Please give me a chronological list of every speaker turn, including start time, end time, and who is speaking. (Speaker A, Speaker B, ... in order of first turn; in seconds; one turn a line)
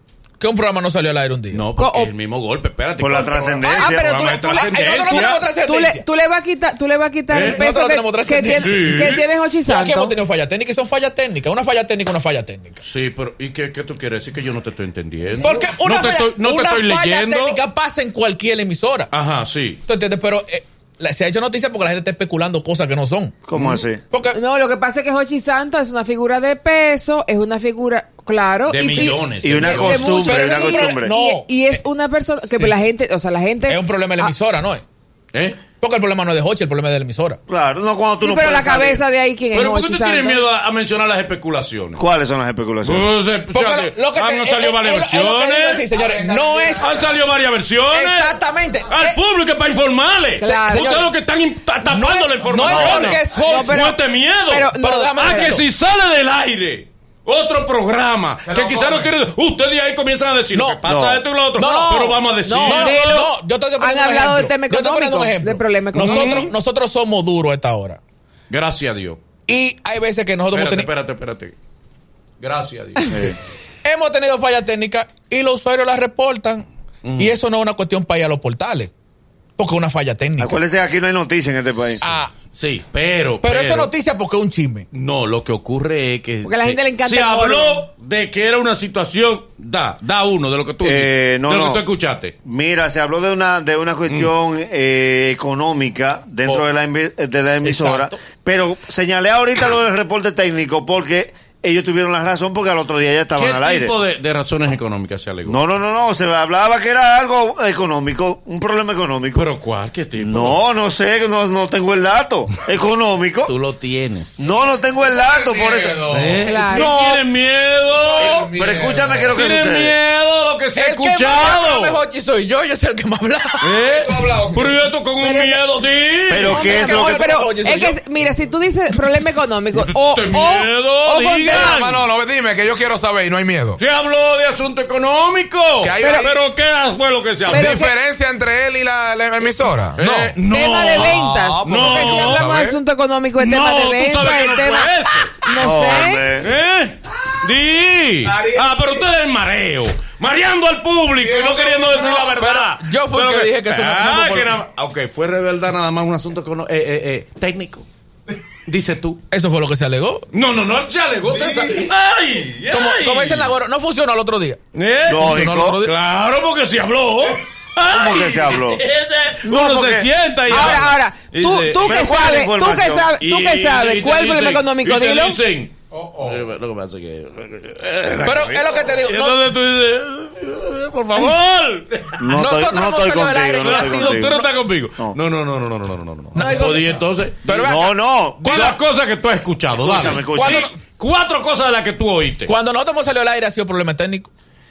Speaker A: 0.4-1.7
Speaker B: 1.5-5.4
Speaker C: 1.8-2.1
Speaker D: 3.0-4.0
Speaker A: 3.6-6.0
Speaker C: 3.8-10.1
Speaker B: 7.3-7.6
Speaker A: 7.4-12.8
Speaker B: 8.6-9.3
Speaker B: 12.8-17.6
Speaker A: 15.4-19.1
Speaker B: 19.1-19.8
Speaker A: 19.9-23.4
Speaker D: 23.5-24.0
Speaker B: 23.5-23.9
Speaker A: 24.1-24.4
Speaker C: 24.3-34.3
Speaker B: 28.7-30.2
Speaker D: 29.4-31.1
Speaker A: 30.2-31.8
Speaker A: 32.4-32.8
Speaker A: 33.6-34.8
Speaker B: 35.3-35.6
Speaker A: 35.8-37.4
Speaker D: 37.5-39.0
Speaker C: 38.2-40.4
Speaker B: 39.5-42.0
Speaker D: 42.0-43.1
Speaker B: 42.8-45.9
Speaker A: 43.5-46.9
Speaker C: 46.0-46.8
Speaker B: 46.8-48.3
Speaker A: 47.9-49.2
Speaker B: 48.9-63.2
Speaker C: 50.4-51.0
Speaker A: 50.4-51.1
Speaker A: 51.8-53.8
Speaker D: 52.7-53.1
Speaker C: 52.8-55.6
Speaker A: 54.8-55.6
Speaker A: 58.5-59.1
Speaker A: 60.5-60.8
Speaker D: 60.9-61.2
Speaker A: 61.5-68.0
Speaker C: 61.6-66.5
Speaker B: 66.0-66.5
Speaker B: 68.5-69.2
Speaker A: 69.5-70.9
Speaker B: 70.5-71.5
Speaker B: 72.4-73.3
Speaker D: 73.1-73.3
Speaker A: 73.8-76.7
Speaker B: 77.0-77.4
Speaker A: 77.2-78.9
Speaker A: 79.6-80.6
Speaker D: 80.4-82.0
Speaker A: 82.0-82.3
Speaker B: 82.5-83.9
Speaker A: 83.4-84.9
Speaker B: 84.9-92.3
Speaker C: 86.4-87.8
Speaker D: 90.8-91.8
Speaker D: 92.4-103.9
Speaker A: 97.6-98.2
Speaker B: 103.3-105.6
Speaker D: 105.5-109.4
Speaker B: 109.3-110.6
Speaker D: 110.2-113.5
Speaker B: 113.5-114.5
Speaker D: 114.4-116.1
Speaker E: 115.1-116.4
Speaker B: 116.1-118.5
Speaker C: 116.4-117.0
Speaker A: 116.9-117.2
Speaker E: 118.0-119.4
Speaker D: 118.2-119.9
Speaker B: 119.3-122.0
Speaker A: 120.7-123.7
Speaker B: 123.6-126.7
Speaker E: 124.2-124.7
Speaker C: 125.2-125.6
Speaker D: 126.3-127.2
Speaker C: 126.4-131.7
Speaker A: 126.6-128.0
Speaker B: 129.8-132.1
Speaker E: 131.5-133.8
Speaker B: 133.8-137.8
Speaker E: 135.8-136.4
Speaker C: 136.0-136.4
Speaker C: 137.5-137.9
Speaker E: 137.5-140.4
Speaker B: 139.9-142.5
Speaker C: 140.5-146.3
Speaker E: 141.0-142.8
Speaker B: 143.3-145.5
Speaker D: 145.6-146.5
Speaker B: 146.4-157.9
Speaker E: 151.4-151.9
Speaker A: 151.7-154.6
Speaker B: 158.7-159.2
Speaker A: 159.3-160.3
Speaker B: 160.3-163.5
Speaker A: 161.3-161.9
Speaker A: 162.7-165.9
Speaker B: 164.7-172.2
Speaker D: 165.1-165.8
Speaker D: 167.9-168.8
Speaker D: 169.4-170.1
Speaker C: 170.5-175.4
Speaker D: 171.8-173.1
Speaker B: 173.2-182.3
Speaker A: 178.2-179.5
Speaker D: 182.2-184.3
Speaker A: 182.3-184.6
Speaker B: 183.6-187.5
Speaker A: 186.3-186.8
Speaker C: 186.3-186.9
Speaker A: 187.4-188.8
Speaker D: 187.5-188.7
Speaker B: 188.4-192.5
Speaker D: 189.8-190.7
Speaker A: 190.3-190.7
Speaker A: 192.4-194.3